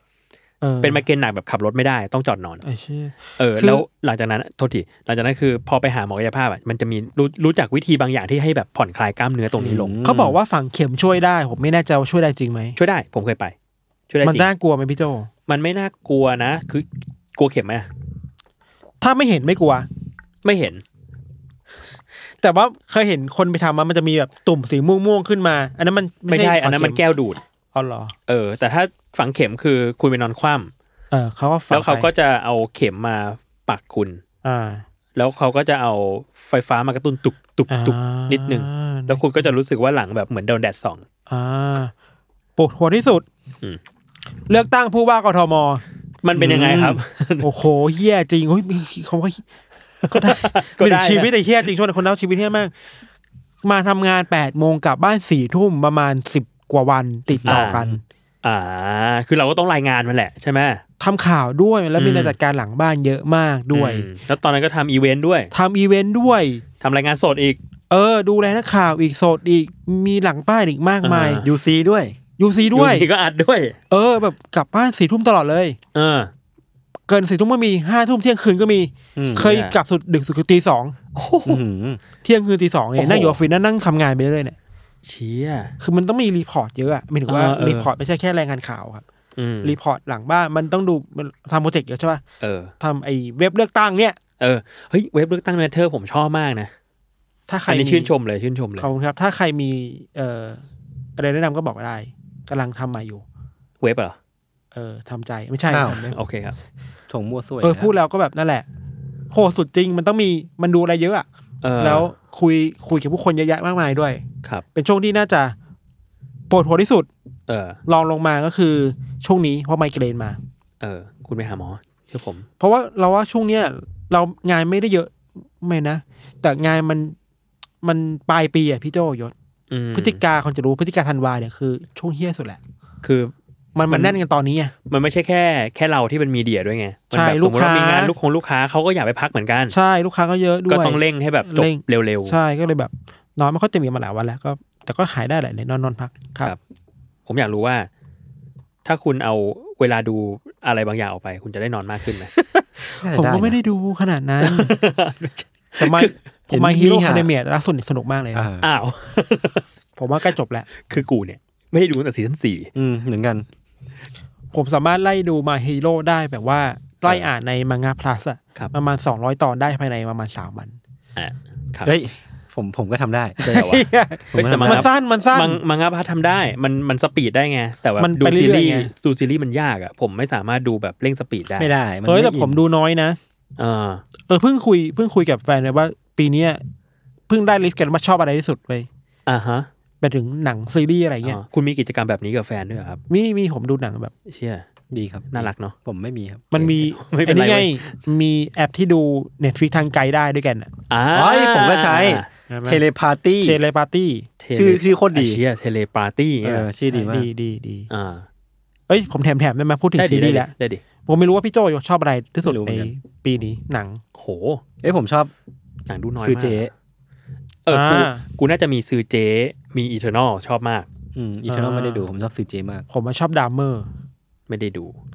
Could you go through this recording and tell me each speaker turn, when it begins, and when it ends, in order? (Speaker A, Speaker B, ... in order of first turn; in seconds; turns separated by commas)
Speaker A: 0.6-1.0, Speaker B: 0.8-2.6, Speaker A: 2.6-3.9, Speaker B: 3.4-10.0, Speaker C: 9.6-10.4, Speaker A: 10.0-12.8, Speaker B: 12.8-13.6, Speaker B: 14.1-14.5, Speaker A: 14.2-15.3, Speaker B: 15.5-17.9, Speaker A: 19.0-19.9, Speaker B: 20.4-20.8, Speaker A: 22.4-27.0, Speaker B: 26.3-27.4, Speaker A: 27.7-28.1, Speaker B: 28.3-30.7, Speaker A: 31.1-32.1, Speaker B: 31.7-34.2, Speaker A: 34.4-34.9, Speaker B: 35.2-41.0, Speaker A: 37.7-39.5, Speaker A: 41.3-41.9, Speaker A: 42.6-43.3, Speaker A: 44.5-45.8, Speaker B: 46.2-47.5, Speaker A: 46.4-49.4, Speaker B: 50.1-51.3, Speaker A: 50.1-52.7, Speaker A: 53.6-58.0, Speaker C: 57.3-58.0, Speaker B: 57.5-57.9, Speaker B: 58.4-60.8, Speaker A: 61.0-64.1, Speaker B: 62.0-62.4, Speaker B: 63.7-65.5, Speaker A: 65.5-66.6, Speaker B: 66.8-67.6, Speaker A: 67.9-71.5, Speaker B: 71.0-71.5, Speaker C: 71.4-72.2, Speaker A: 72.4-73.1, Speaker B: 72.7-73.8, Speaker A: 73.9-75.8, Speaker B: 75.9-76.3, Speaker A: 77.1-81.0, Speaker C: 79.2-79.5, Speaker B: 79.3-79.8, Speaker B: 81.2-81.6, Speaker C: 81.5-82.0, Speaker A: 82.2-84.6, Speaker B: 83.0-83.3, Speaker B: 85.0-85.8, Speaker A: 85.8-89.0, Speaker B: 87.3-87.9, Speaker B: 89.4-89.8, Speaker A: 89.6-92.2, Speaker B: 92.4-92.7, Speaker A: 92.8-94.2, Speaker B: 94.4-96.7, Speaker A: 97.5-98.1, Speaker B: 97.7-98.9, Speaker A: 98.8-100.6, Speaker A: 101.2-103.2, Speaker B: 103.8-104.2, Speaker A: 104.7-106.2, Speaker C: 105.7-106.0, Speaker B: 106.1-106.6, Speaker C: 107.1-107.9, Speaker A: 107.6-108.7, Speaker A: 109.3-111.3, Speaker B: 111.6-112.1, Speaker A: 111.8-114.2, Speaker A: 114.8-115.5, Speaker A: 116.5-117.1, Speaker B: 117.5-117.8, Speaker A: 117.9-120.4, Speaker B: 120.8-122.5, Speaker A: 122.6-127.2, Speaker A: 127.8-129.3, Speaker B: 129.7-130.2, Speaker A: 129.9-132.6, Speaker B: 133.0-133.3, Speaker A: 133.8-134.7, Speaker B: 133.9-134.2, Speaker B: 134.9-139.8, Speaker A: 137.1-138.1, Speaker A: 139.7-146.6, Speaker B: 140.7-142.4, Speaker B: 147.3-147.9, Speaker B: 148.8-152.3, Speaker A: 152.5-154.7, Speaker C: 153.0-153.6, Speaker B: 154.4-156.1, Speaker A: 155.8-158.5, Speaker C: 156.5-157.3, Speaker C: 158.3-158.7, Speaker B: 158.6-159.6, Speaker A: 160.0-160.7, Speaker B: 160.8-162.7, Speaker C: 162.8-163.5, Speaker A: 164.5-170.8, Speaker B: 171.2-171.9, Speaker C: 171.8-173.4, Speaker A: 173.4-175.6, Speaker B: 173.4-181.7, Speaker C: 174.3-174.9, Speaker A: 178.0-178.9, Speaker C: 181.6-182.6, Speaker A: 182.1-183.2, Speaker B: 183.6-184.0, Speaker A: 184.3-186.6, Speaker A: 187.3-188.9, Speaker B: 189.3-189.7, Speaker A: 190.0-191.4, Speaker B: 191.2-193.0, Speaker A: 193.1-194.1, Speaker B: 194.3-194.7, Speaker C: 194.9-196.6, Speaker B: 195.3-195.8, Speaker A: 196.5-200.7, Speaker B: 196.6-197.9, Speaker B: 200.9-202.3, Speaker C: 201.1-203.6, Speaker A: 202.5-202.8, Speaker A: 203.4-204.3, Speaker B: 204.4-206.7, Speaker C: 204.5-205.4, Speaker C: 206.4-207.3, Speaker A: 206.9-207.9, Speaker B: 207.9-208.3, Speaker A: 208.9-210.5, Speaker B: 210.0-210.8, Speaker A: 211.1-214.0, Speaker C: 212.4-212.9, Speaker B: 214.2-214.6, Speaker C: 214.8-215.3, Speaker B: 215.9-216.7, Speaker C: 216.2-216.7, Speaker B: 217.7-220.9, Speaker A: 217.7-218.2, Speaker C: 221.2-222.9, Speaker A: 221.5-222.1, Speaker A: 222.9-223.9, Speaker B: 224.5-225.0